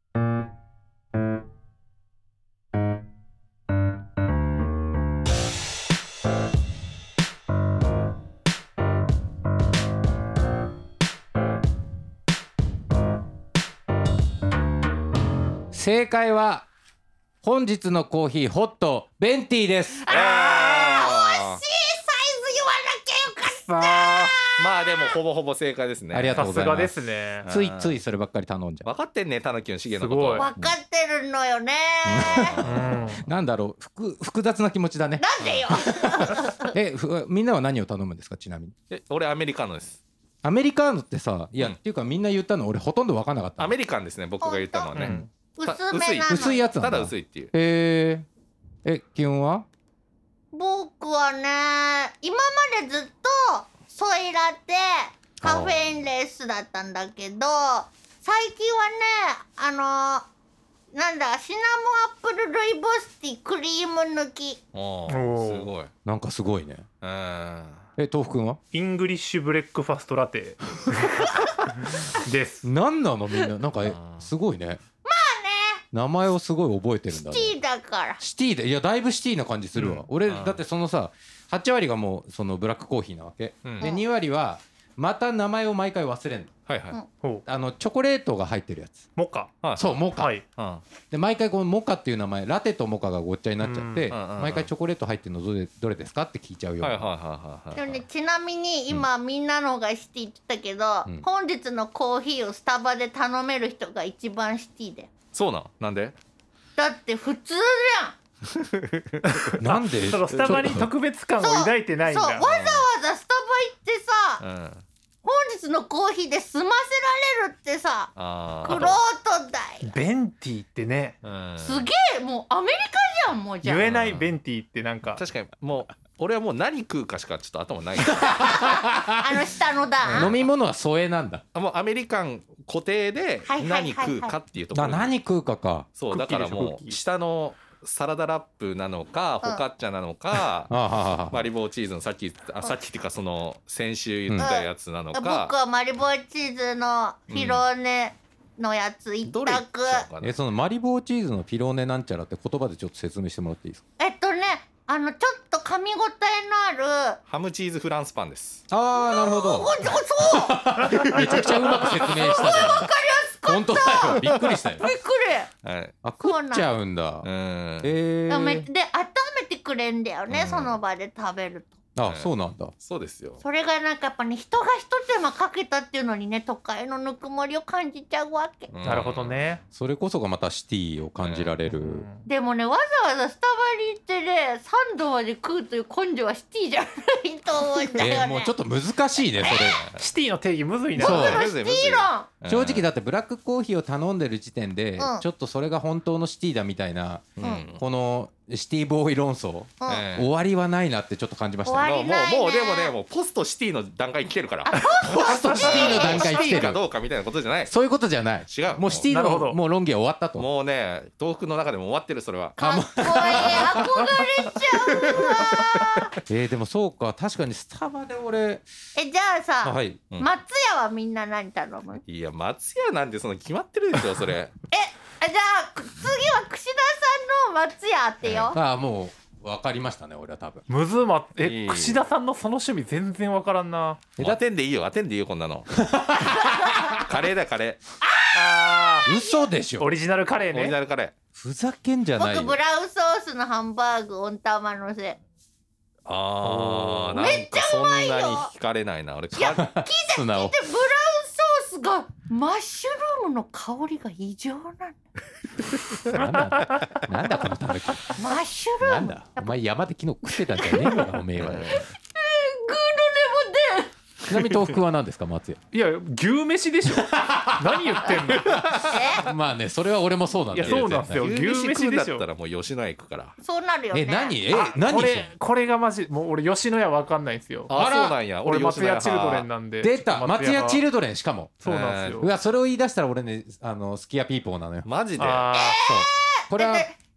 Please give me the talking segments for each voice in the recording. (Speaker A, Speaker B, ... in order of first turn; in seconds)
Speaker A: 15.7-16.6, 17.4-20.1, 26.1-26.9, 27.4-28.9, 32.0-38.7, 40.4-43.8, 46.2-48.2, 48.8-49.6, 55.4-55.8, 66.0-66.8, 68.0-68.6, 72.6-74.8, 75.9-77.6, 78.2-86.5, 87.5-89.0, 89.8-90.3, 91.1-97.1, 109.6-110.9, 128.1-129.2, 130.1-131.4, 134.7-135.9, 140.7-141.4, 144.3-144.5, 150.2-153.8, 158.7-164.8, 166.0-167.3, 167.8-168.7, 171.9-172.7, 179.7-182.1, 188.0-189.8, 191.0-191.4, 192.5-201.9, 205.1-206.8, 207.7-210.5, 212.6-215.4, 216.3-218.7, 219.6-220.0, 228.5-230.6, 235.7-236.8, 239.0-239.9, 241.3-242.6, 249.6-250.6, 256.0-258.2, 258.8-261.8, 264.2-265.6, 266.9-271.2, 273.9-275.3, 277.7-278.2, 279.8-281.6, 282.2-284.9, 285.8-286.9
Speaker B: 20.0-25.2, 30.3-32.6, 35.2-36.7, 44.4-46.7, 50.5-60.2, 60.9-64.6, 75.0-75.8, 77.1-78.2, 97.8-105.1, 106.8-108.2, 111.4-114.4, 115.2-119.9, 121.6-123.9, 128.3-130.4, 133.5-134.3, 144.4-150.1, 154.0-157.2, 158.9-160.6, 161.2-165.5, 166.2-166.7, 168.3-171.8, 173.4-178.7, 182.2-188.5, 189.4-189.8, 190.9-192.3, 195.0-195.2, 201.6-202.9, 204.6-206.6, 212.6-216.1, 218.9-222.0, 224.7-228.6, 236.3-236.9, 238.0-239.5, 242.1-245.2, 247.1-248.5, 249.3-255.0, 258.1-259.6, 260.5-261.0, 261.7-263.9, 268.9-269.3, 273.4-274.4, 285.5-286.9
Speaker C: 20.1-21.6, 24.4-26.5, 27.4-28.0, 28.8-30.7, 32.3-32.9, 35.4-35.6, 38.9-40.0, 43.6-47.5, 64.7-65.9, 67.0-67.8, 73.8-74.3, 80.2-80.6, 83.6-83.9, 86.7-87.0, 89.6-90.8, 94.1-94.7, 96.8-98.0, 105.3-106.1, 108.5-109.2, 110.3-110.8, 112.4-112.8, 114.4-114.8, 118.1-119.0, 121.2-121.9, 123.8-124.3, 125.1-128.5, 130.1-130.4, 131.5-135.1, 135.9-140.7, 141.3-145.5, 147.3-147.6, 149.3-150.3, 157.3-158.6, 165.6-165.9, 167.2-167.9, 170.3-170.8, 172.0-173.4, 178.7-179.4, 181.2-181.6, 189.5-190.0, 191.0-192.8, 197.4-197.8, 199.8-200.3, 201.8-204.8, 205.6-207.8, 208.4-209.1, 210.3-212.6, 213.1-213.8, 222.0-224.5, 228.2-228.5, 231.4-232.0, 234.2-235.7, 236.9-237.8, 240.5-241.1, 246.1-249.6, 261.4-261.8, 270.6-273.4, 277.7-279.5, 281.6-282.2, 284.8-285.5
Speaker D: 23.7-24.3, 26.3-27.5, 29.9-30.5, 32.6-33.2, 44.9-45.3, 65.1-65.7, 68.7-70.6, 71.9-72.7, 79.8-80.0, 87.1-87.4, 89.2-89.6, 90.2-90.4, 93.6-94.1, 109.2-112.4, 119.8-121.2, 123.6-125.2, 136.1-137.0, 178.8-179.6, 181.6-182.3, 190.0-191.4, 209.1-209.6, 230.7-234.1, 238.3-239.1, 239.8-240.8, 246.4-247.3, 265.7-268.6, 270.5-272.2, 274.5-277.7, 278.3-280.8, 281.6-282.3, 285.2-285.8